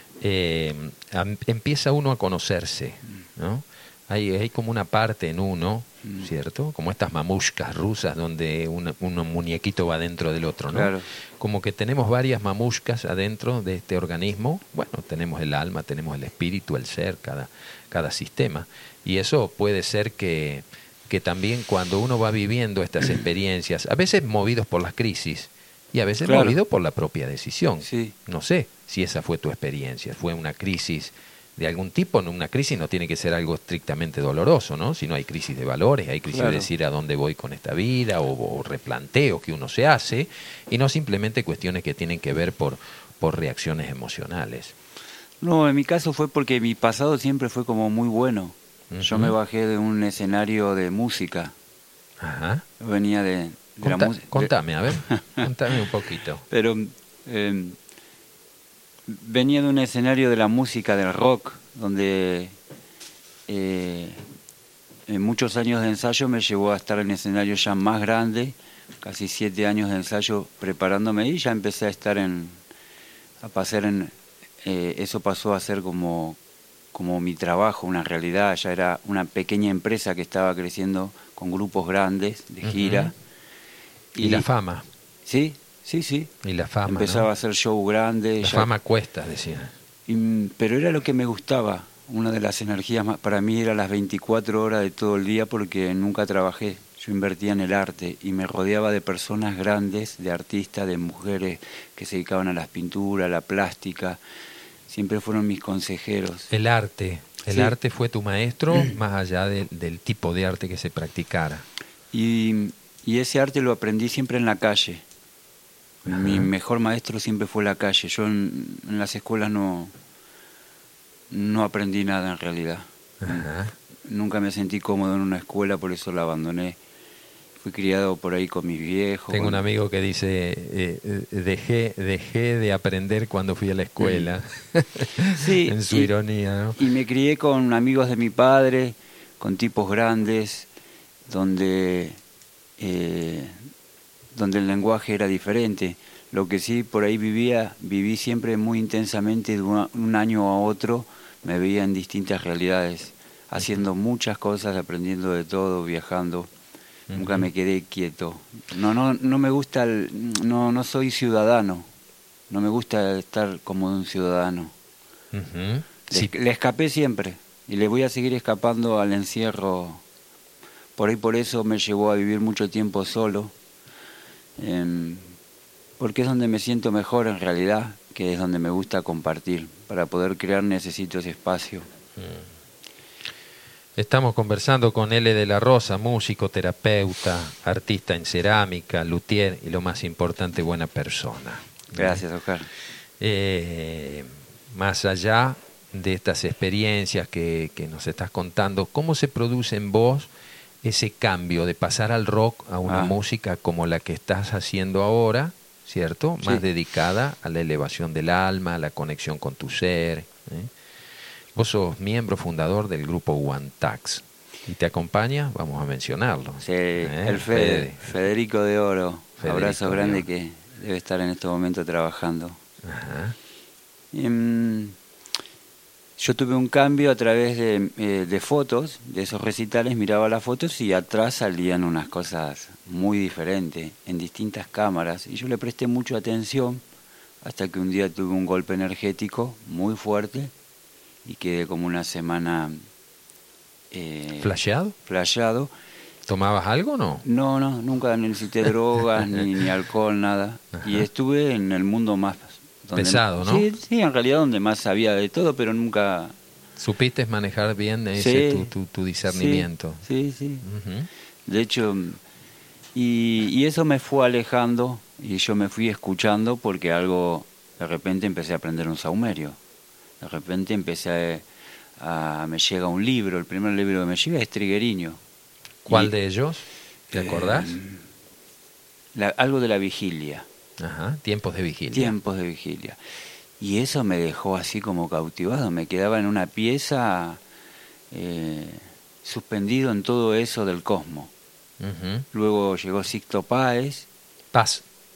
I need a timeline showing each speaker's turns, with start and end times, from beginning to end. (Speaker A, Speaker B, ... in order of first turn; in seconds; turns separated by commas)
Speaker A: 0.2-44.7, Speaker B: 6.0-6.3, Speaker B: 10.7-11.1, Speaker B: 26.2-26.6, Speaker B: 27.8-28.1, Speaker B: 36.3-36.7, Speaker B: 45.4-51.5, Speaker A: 48.9-49.3, Speaker A: 52.2-52.6, Speaker B: 52.8-54.5, Speaker A: 53.8-56.4, Speaker B: 55.1-55.4, Speaker B: 56.5-57.8, Speaker B: 59.1-62.5, Speaker B: 63.5-64.2, Speaker B: 65.1-72.6, Speaker B: 73.4-76.4, Speaker B: 76.9-83.1, Speaker A: 82.6-83.1, Speaker B: 84.1-84.5, Speaker A: 84.2-84.8, Speaker B: 85.2-86.3, Speaker A: 86.4-87.3, Speaker B: 86.8-88.7, Speaker A: 88.4-89.7, Speaker B: 90.1-104.2, Speaker B: 104.9-106.5, Speaker A: 106.5-111.6, Speaker B: 107.5-107.7, Speaker B: 112.1-115.0, Speaker B: 116.0-119.9, Speaker A: 116.0-116.5, Speaker B: 121.3-123.5, Speaker A: 123.2-123.7, Speaker B: 124.0-126.8, Speaker B: 127.6-129.6, Speaker A: 129.3-136.8, Speaker B: 134.0-134.3, Speaker B: 135.3-136.1, Speaker B: 136.8-140.7, Speaker B: 141.3-142.2, Speaker B: 142.8-143.6, Speaker B: 144.3-156.5, Speaker A: 157.1-157.5, Speaker B: 157.1-161.9, Speaker B: 162.5-164.7, Speaker A: 165.3-166.3, Speaker B: 166.1-170.0, Speaker B: 170.9-173.5, Speaker B: 174.6-175.3, Speaker B: 176.0-181.9, Speaker A: 182.2-182.5, Speaker A: 184.0-192.2, Speaker B: 191.9-192.7, Speaker A: 193.2-200.3, Speaker A: 200.8-210.7, Speaker B: 202.8-203.1, Speaker B: 206.4-206.7, Speaker A: 211.5-218.0, Speaker B: 216.6-222.6, Speaker A: 219.4-220.2, Speaker A: 222.8-223.3, Speaker B: 224.1-225.0, Speaker B: 226.2-236.8, Speaker B: 237.4-240.5, Speaker B: 241.2-242.8, Speaker B: 243.9-244.5, Speaker A: 244.4-244.9, Speaker B: 245.1-245.7, Speaker A: 246.2-247.2, Speaker B: 247.2-256.3, Speaker A: 252.9-253.7, Speaker A: 256.8-260.0, Speaker B: 258.1-258.7, Speaker B: 259.3-260.6, Speaker A: 260.6-261.1, Speaker B: 261.5-262.2, Speaker B: 262.9-269.6, Speaker B: 270.2-271.4, Speaker B: 272.0-275.2, Speaker A: 275.9-277.8, Speaker B: 275.9-276.1, Speaker B: 277.1-278.0, Speaker B: 279.1-280.4, Speaker A: 280.8-282.1, Speaker B: 281.9-283.0, Speaker B: 283.6-287.4, Speaker B: 288.1-291.3, Speaker A: 291.8-292.2, Speaker B: 292.3-294.1, Speaker A: 294.5-294.8